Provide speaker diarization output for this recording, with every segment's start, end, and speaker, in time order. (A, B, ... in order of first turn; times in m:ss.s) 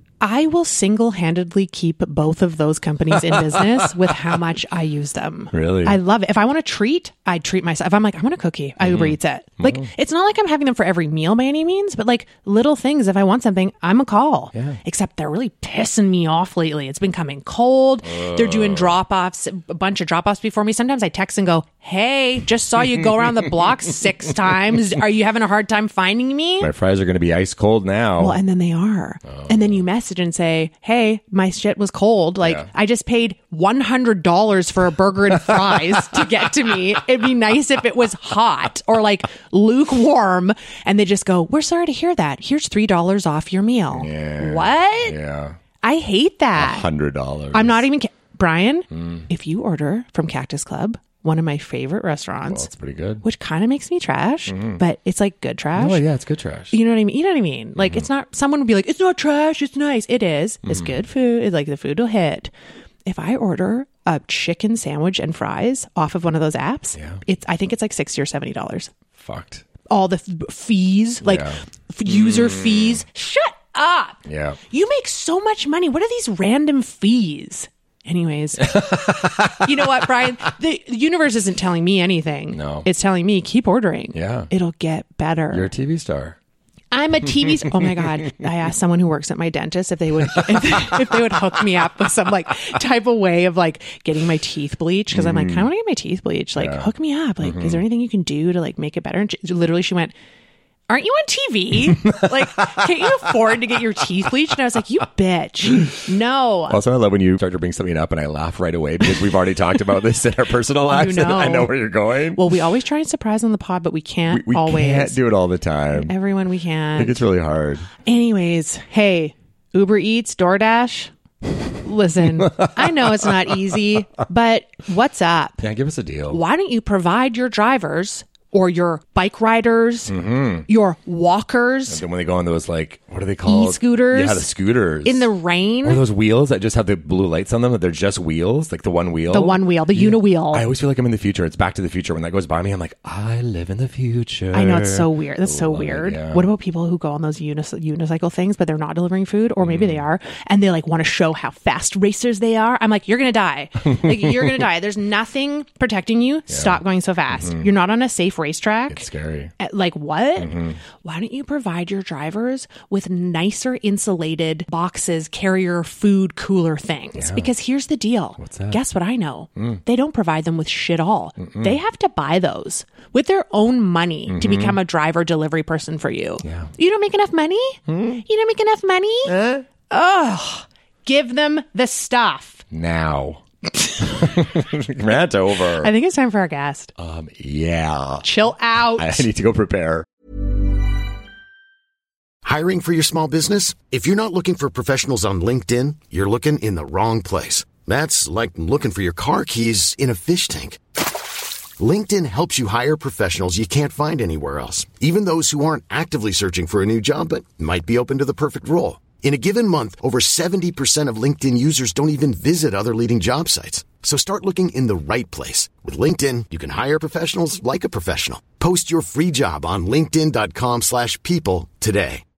0:00.2-0:26.7 A
0:03.1-0:03.9 B
0:05.5-0:06.0 B
0:08.8-0:09.9 B
0:14.5-0:14.8 B
0:18.0-0:19.0 B
0:23.0-0:23.3 B
0:26.6-0:28.4 B
0:28.2-0:45.2 A
0:29.3-0:29.8 B
0:32.4-0:32.7 B
0:35.4-0:36.2 B
0:43.9-0:45.6 B
0:45.8-0:46.9 A
0:46.6-0:47.8 B
0:47.5-0:52.7 A
0:48.9-0:49.3 B
0:52.5-0:53.2 B
0:53.2-0:56.0 A
0:54.5-0:54.8 B
0:55.8-0:56.8 B
0:56.7-1:02.5 A
0:57.8-0:58.1 B
1:00.6-1:01.0 B
1:03.1-1:08.9 A
1:07.0-1:07.2 B
1:09.2-1:09.6 B
1:09.9-1:14.2 A
1:11.2-1:13.0 B
1:14.2-1:14.6 B
1:14.7-1:25.7 A
1:18.6-1:20.3 B
1:22.5-1:22.9 B
1:24.1-1:24.5 B
1:25.5-1:26.4 B
1:26.9-1:40.1 A
1:27.3-1:28.2 B
1:30.3-1:31.3 B
1:35.1-1:35.7 B
1:36.6-1:37.8 B
1:40.9-1:46.8 A
1:41.9-1:43.5 B
1:46.7-1:52.4 B
1:50.9-1:51.7 A
1:52.3-1:55.2 A
1:54.3-1:56.1 B
1:55.9-1:57.2 A
1:57.0-1:57.9 B
1:58.0-2:01.1 A
2:01.8-2:05.6 A
2:02.2-2:03.6 B
2:05.6-2:06.4 B
2:06.3-2:10.1 A
2:10.1-2:10.7 B
2:10.7-2:12.0 A
2:11.9-2:15.3 B
2:13.4-2:14.5 A
2:15.0-2:16.0 A
2:15.8-2:26.5 B
2:19.3-2:20.7 A
2:24.5-2:39.1 A
2:29.6-2:30.0 B
2:33.9-2:34.6 B
2:36.5-2:37.7 B
2:38.9-2:39.5 B
2:39.6-2:59.3 A
2:40.4-2:40.8 B
2:47.2-2:47.5 B
2:48.4-2:48.8 B
2:49.6-2:49.8 B
2:51.4-2:51.8 B
2:54.3-2:54.8 B
2:56.4-2:56.7 B
2:57.9-2:58.2 B
2:59.3-2:59.6 B
2:59.9-3:02.6 A
3:02.7-3:03.4 B
3:03.8-3:04.3 A
3:04.0-3:05.9 B
3:05.8-3:06.9 A
3:07.0-3:08.3 B
3:08.2-3:09.3 A
3:09.0-3:10.1 B
3:12.4-3:20.8 C
3:21.8-3:42.2 C